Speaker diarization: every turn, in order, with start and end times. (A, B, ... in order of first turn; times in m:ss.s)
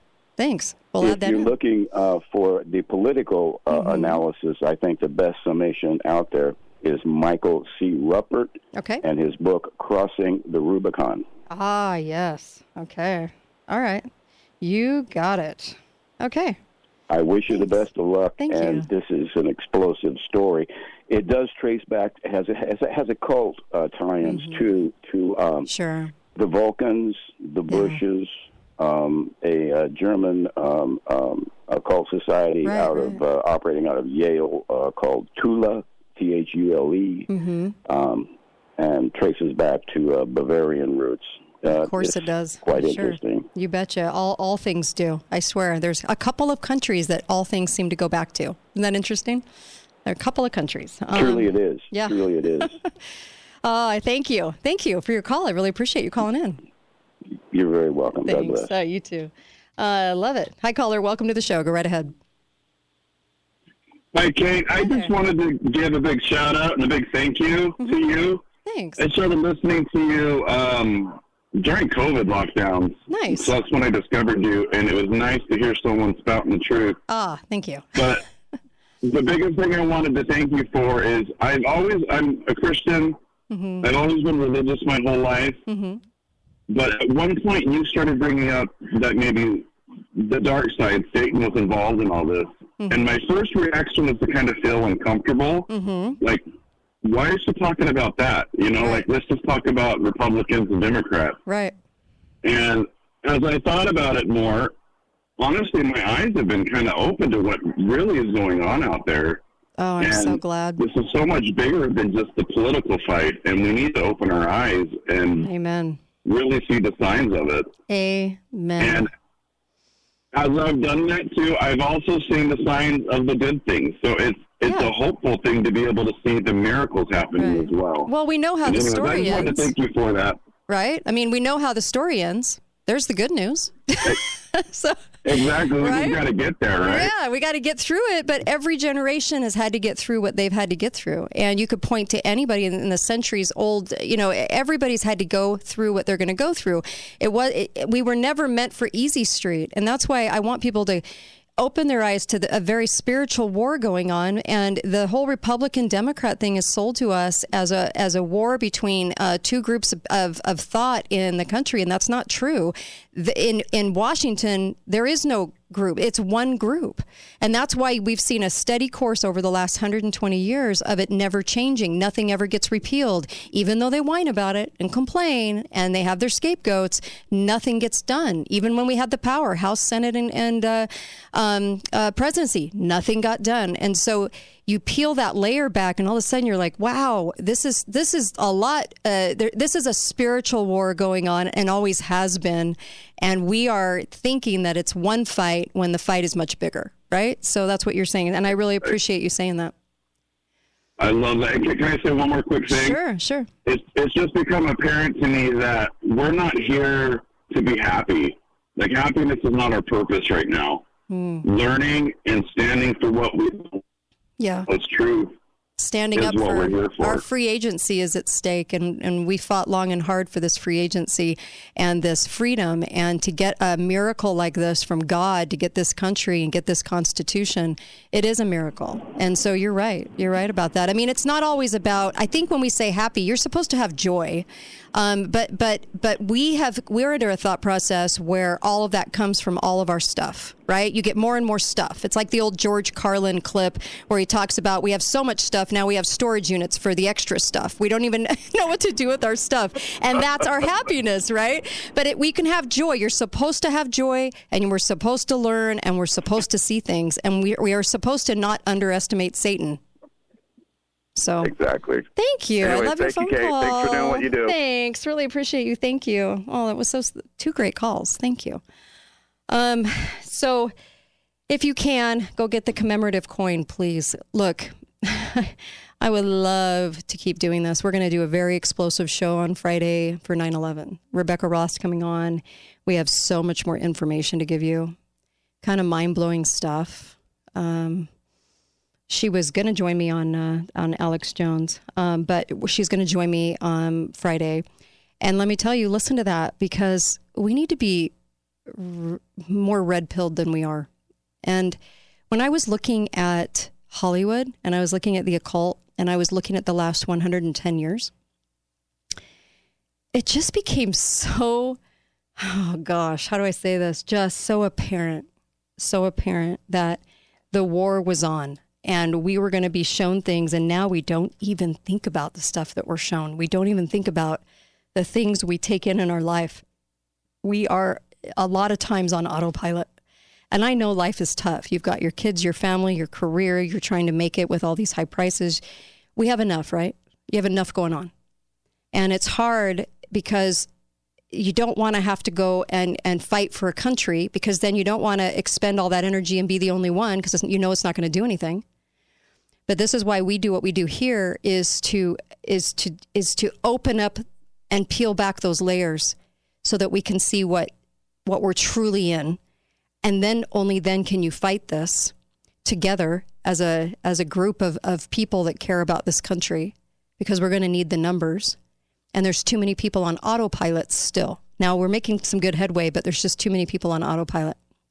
0:00.4-0:01.5 A
0:01.0-0:11.3 B
0:03.7-0:04.2 A
0:08.7-0:09.0 A
0:11.5-0:14.1 A
0:14.6-0:16.6 A
0:17.1-0:25.7 B
0:17.5-0:17.8 A
0:18.4-0:18.9 A
0:24.2-0:24.7 A
0:25.6-0:26.1 A
0:26.3-0:37.3 B
0:27.7-0:28.0 A
0:32.6-0:33.2 A
0:37.3-0:37.8 A
0:37.8-0:43.5 B
0:41.7-0:49.4 A
0:50.0-0:52.8 A
0:51.1-0:52.7 B
0:53.6-0:56.6 A
0:57.5-0:58.7 B
0:58.2-1:02.1 A
1:04.1-1:08.4 C
1:04.8-1:05.1 A
1:07.8-1:08.0 A
1:08.6-1:09.0 A
1:09.0-1:17.0 C
1:13.1-1:13.5 A
1:17.1-1:18.0 A
1:17.9-1:18.2 C
1:19.0-1:23.2 C
1:23.5-1:23.9 A
1:23.8-1:25.6 C
1:25.7-1:26.0 A
1:26.7-1:35.7 C
1:35.7-1:36.2 A
1:37.0-1:41.4 C
1:38.8-1:39.0 A
1:41.4-1:41.7 A
1:42.4-1:44.7 C
1:45.4-1:49.4 C
1:49.8-1:50.8 A
1:50.0-1:55.5 C
1:55.4-1:56.0 A
1:56.2-1:57.7 C
1:57.9-1:59.1 A
1:58.8-1:59.1 C
2:00.3-2:08.1 C
2:04.6-2:04.9 A
2:07.4-2:09.7 A
2:08.6-2:10.4 C
2:10.7-2:15.1 A
2:15.2-2:17.1 C
2:15.7-2:16.2 A
2:16.8-2:31.0 A
2:31.6-3:19.7 A
3:21.0-3:23.0 C
3:22.7-3:23.5 A
3:23.6-3:30.8 C
3:31.1-3:31.4 A
3:31.4-3:33.8 C
3:34.4-3:34.7 A
3:34.7-3:35.3 C
3:35.8-4:19.8 A
3:36.1-3:37.2 C
4:21.2-4:21.5 A
4:21.4-4:22.1 B
4:22.1-4:28.6 A
4:22.6-4:24.6 B
4:29.5-4:30.7 A
4:31.5-4:45.0 A
4:45.6-4:48.1 A
4:49.1-4:54.6 A
4:55.2-4:58.1 A
4:58.7-5:00.9 A
5:01.4-5:01.8 A
5:02.3-5:08.1 A
5:10.1-5:11.8 A
5:12.4-5:24.4 A
5:24.9-5:26.6 A
5:27.4-5:29.9 A
5:30.5-5:35.6 A
5:36.2-5:38.1 A
5:38.9-5:40.7 A
5:41.3-5:48.6 A
5:49.7-5:57.7 A
5:58.2-5:59.4 A
6:00.0-6:02.1 A
6:02.6-6:08.6 A
6:09.1-6:14.6 A